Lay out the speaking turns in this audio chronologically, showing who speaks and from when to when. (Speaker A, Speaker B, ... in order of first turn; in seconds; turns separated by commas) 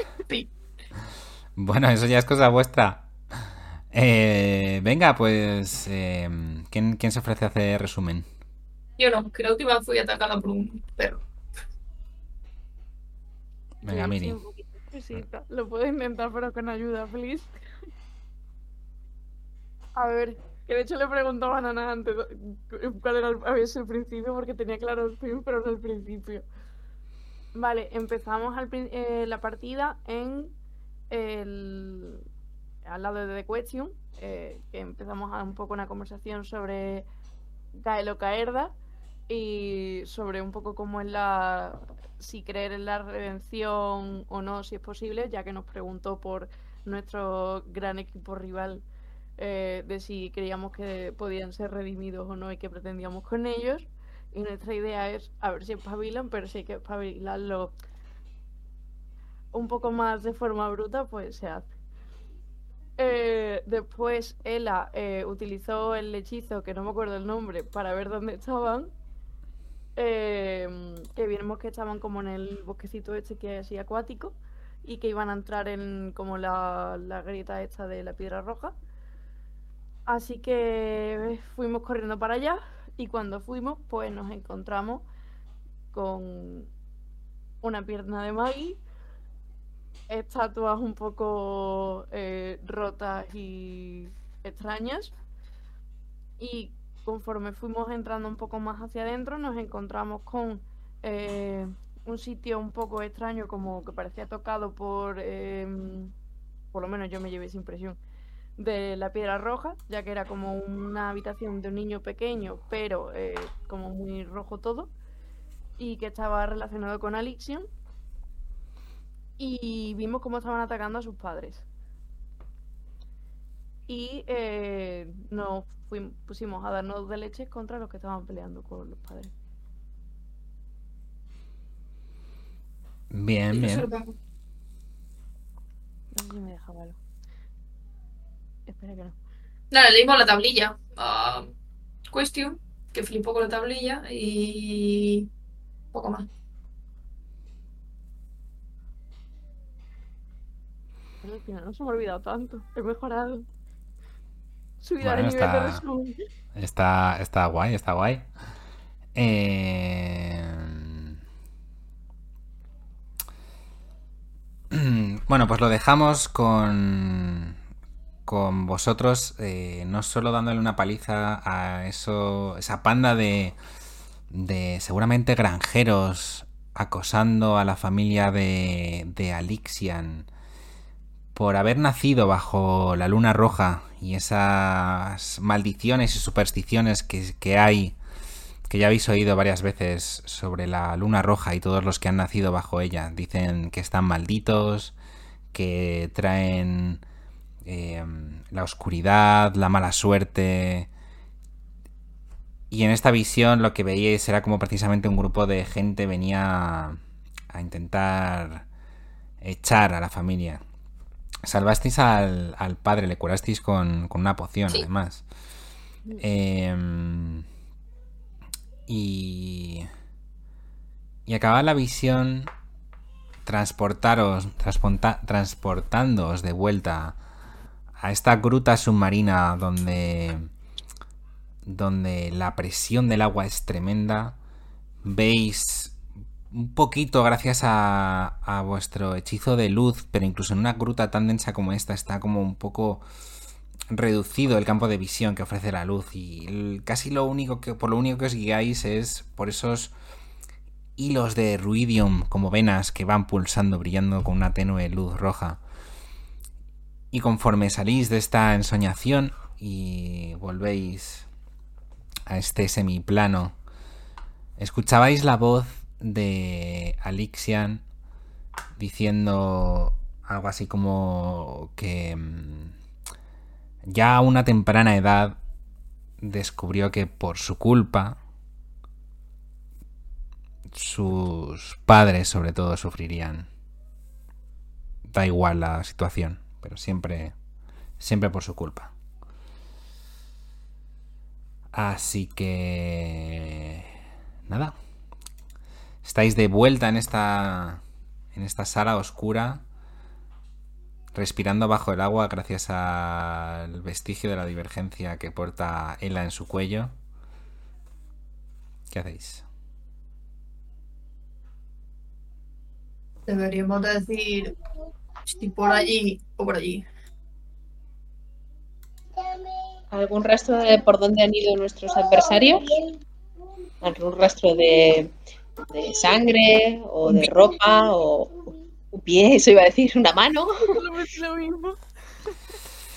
Speaker A: 1.6-8.3, Speaker B: 9.0-11.2, Speaker A: 13.8-14.4, Speaker C: 13.8-17.6, Speaker C: 19.9-26.4, Speaker C: 27.6-30.5, Speaker C: 31.1-32.2, Speaker C: 32.8-37.1, Speaker C: 37.7-38.7, Speaker C: 39.3-48.8, Speaker C: 49.4-57.7, Speaker C: 59.5-61.6, Speaker C: 63.0-68.9, Speaker C: 70.0-78.7, Speaker C: 80.1-85.0, Speaker C: 85.9-86.7, Speaker C: 87.6-88.8, Speaker C: 90.1-95.1, Speaker C: 96.4-106.1, Speaker C: 106.7-108.0, Speaker C: 108.6-114.9, Speaker C: 115.8-117.7, Speaker C: 119.4-121.6, Speaker C: 123.9-129.3, Speaker A: 133.1-133.9, Speaker B: 133.5-134.1, Speaker C: 136.1-137.0, Speaker C: 138.7-139.2, Speaker B: 139.7-141.5, Speaker B: 142.1-145.3, Speaker B: 145.9-146.3, Speaker C: 151.2-153.4, Speaker C: 154.8-156.2, Speaker A: 155.0-155.8, Speaker A: 156.5-158.2, Speaker A: 159.1-161.1, Speaker A: 164.7-167.6, Speaker A: 168.2-173.6, Speaker A: 174.3-180.3, Speaker A: 181.3-187.9, Speaker A: 188.7-194.9, Speaker A: 195.5-197.0, Speaker A: 197.6-200.9, Speaker A: 202.7-207.0, Speaker A: 207.5-208.6, Speaker A: 209.4-210.6, Speaker A: 211.4-215.2, Speaker A: 216.2-217.4, Speaker A: 218.9-219.9, Speaker A: 221.2-222.5, Speaker A: 223.4-227.2, Speaker A: 228.0-230.5, Speaker A: 231.6-234.3, Speaker A: 235.0-235.9, Speaker A: 236.5-243.0, Speaker A: 243.9-249.9, Speaker A: 251.0-255.6, Speaker A: 257.1-261.3, Speaker A: 262.3-263.5, Speaker A: 264.6-267.8, Speaker A: 268.8-272.7, Speaker A: 273.8-275.4, Speaker A: 276.2-278.2, Speaker A: 280.7-283.5, Speaker A: 285.1-287.3, Speaker A: 288.0-288.9, Speaker A: 291.7-293.9, Speaker A: 294.5-294.7, Speaker A: 296.0-297.8, Speaker A: 298.3-299.6, Speaker A: 301.1-306.9, Speaker A: 308.9-309.4, Speaker B: 313.3-314.5, Speaker B: 315.3-316.8, Speaker D: 319.9-322.7, Speaker D: 323.8-325.1, Speaker D: 325.7-330.7, Speaker C: 330.6-331.8